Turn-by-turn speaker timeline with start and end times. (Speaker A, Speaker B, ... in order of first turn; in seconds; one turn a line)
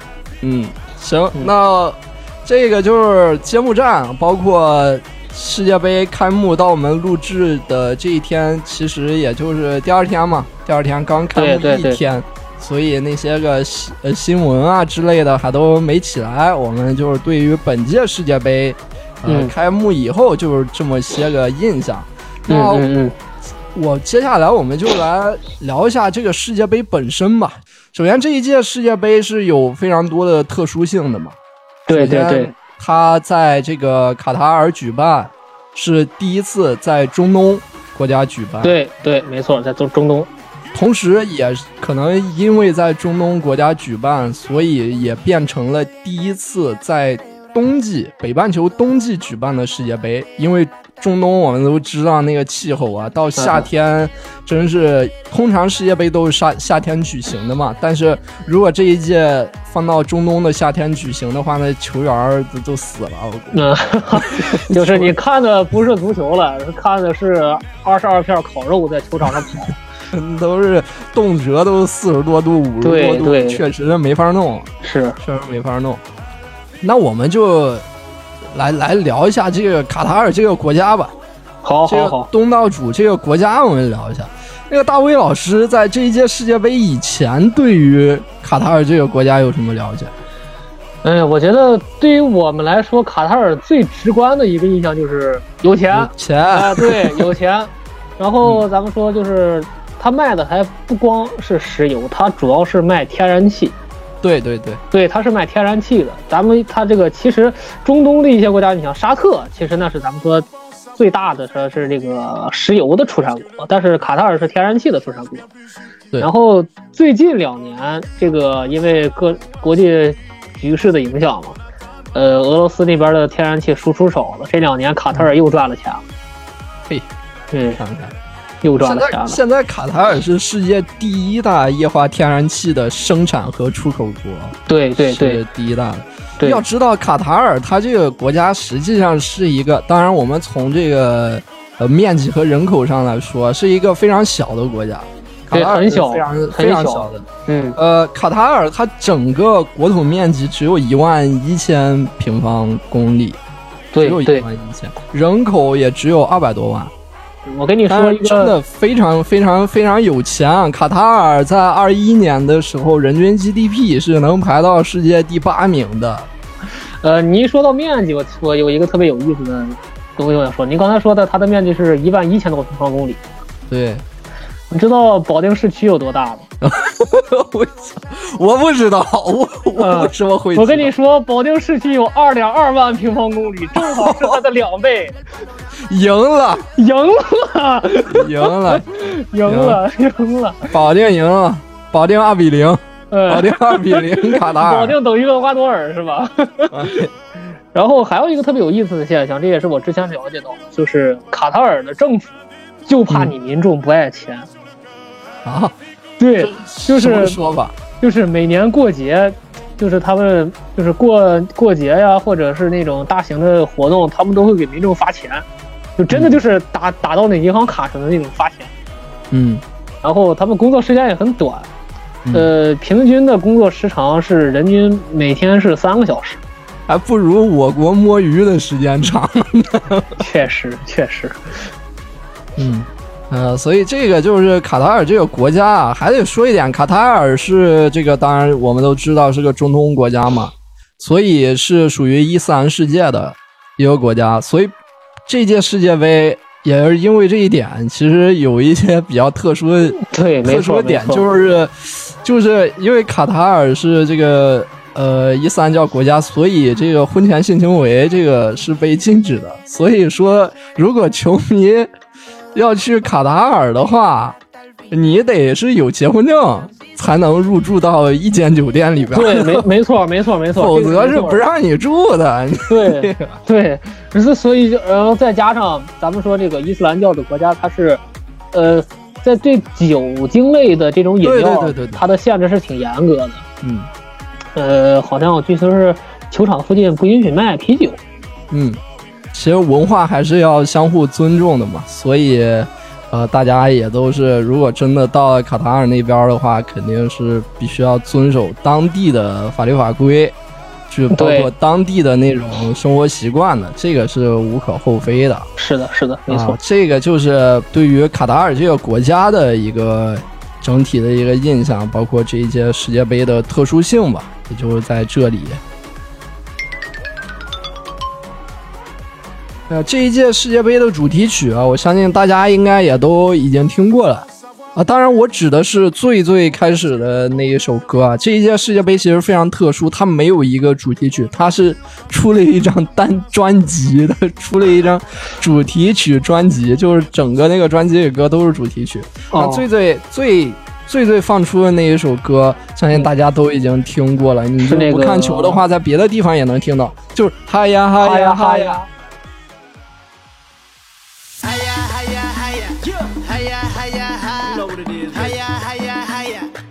Speaker A: 0.4-22.9
Speaker B: 11.3-12.0
Speaker B: 19.3-19.5
Speaker B: 22.5-23.1
Speaker A: 23.7-31.4
Speaker B: 31.9-32.5
Speaker A: 31.9-38.7
Speaker B: 38.6-40.3
Speaker A: 40.7-63.6
Speaker B: 53.4-53.7
Speaker B: 63.5-69.8
Speaker A: 64.2-65.1
Speaker A: 70.1-74.7
Speaker B: 72.8-73.6
Speaker B: 74.8-75.2
Speaker A: 75.2-76.0
Speaker A: 76.8-77.8
Speaker A: 78.5-81.1
Speaker B: 81.6-82.3
Speaker A: 81.9-90.1
Speaker B: 91.0-103.8
Speaker A: 95.9-97.3
Speaker A: 104.2-104.8
Speaker B: 104.9-115.5
Speaker B: 116.2-121.6
Speaker B: 122.1-126.0
Speaker B: 127.5-127.8
Speaker A: 127.8-128.1
Speaker B: 128.6-129.4
Speaker A: 128.8-153.4
Speaker B: 134.7-135.4
Speaker B: 145.5-147.8
Speaker B: 153.9-154.4
Speaker A: 154.0-156.9
Speaker B: 157.4-158.5
Speaker A: 157.9-166.3
Speaker B: 167.0-173.2
Speaker A: 173.7-174.0
Speaker B: 174.7-176.5
Speaker A: 176.6-180.9
Speaker B: 179.8-185.2
Speaker A: 183.8-184.4
Speaker A: 185.8-186.6
Speaker B: 186.7-190.7
Speaker A: 188.1-188.8
Speaker A: 189.4-189.8
Speaker A: 190.7-195.0
Speaker B: 193.1-197.1
Speaker A: 196.7-197.1
Speaker B: 197.7-202.3
Speaker B: 202.8-204.5
Speaker A: 203.1-203.3
Speaker A: 205.4-205.8
Speaker B: 206.2-207.4
Speaker A: 206.4-207.8
Speaker B: 208.0-215.4
Speaker B: 216.0-218.7
Speaker A: 216.1-216.4
Speaker A: 219.3-219.6
Speaker B: 220.0-221.7
Speaker B: 222.3-226.4
Speaker A: 226.9-230.2
Speaker B: 230.2-231.5
Speaker A: 232.6-244.7
Speaker A: 245.3-261.9
Speaker B: 250.0-251.2
Speaker A: 262.5-264.4
Speaker A: 264.9-269.7
Speaker B: 269.1-271.4
Speaker A: 270.5-273.4
Speaker B: 272.7-278.0
Speaker B: 278.5-283.4
Speaker A: 281.2-282.0
Speaker A: 283.6-283.9
Speaker B: 284.6-288.0
Speaker A: 288.5-288.8
Speaker A: 289.3-300.3
Speaker A: 300.9-305.5
Speaker B: 301.1-301.5
Speaker B: 305.6-306.6
Speaker A: 306.3-315.6
Speaker A: 319.7-348.8
Speaker B: 339.3-339.6
Speaker B: 344.6-345.6
Speaker B: 348.0-348.9
Speaker C: 352.1-352.7
Speaker C: 353.6-355.9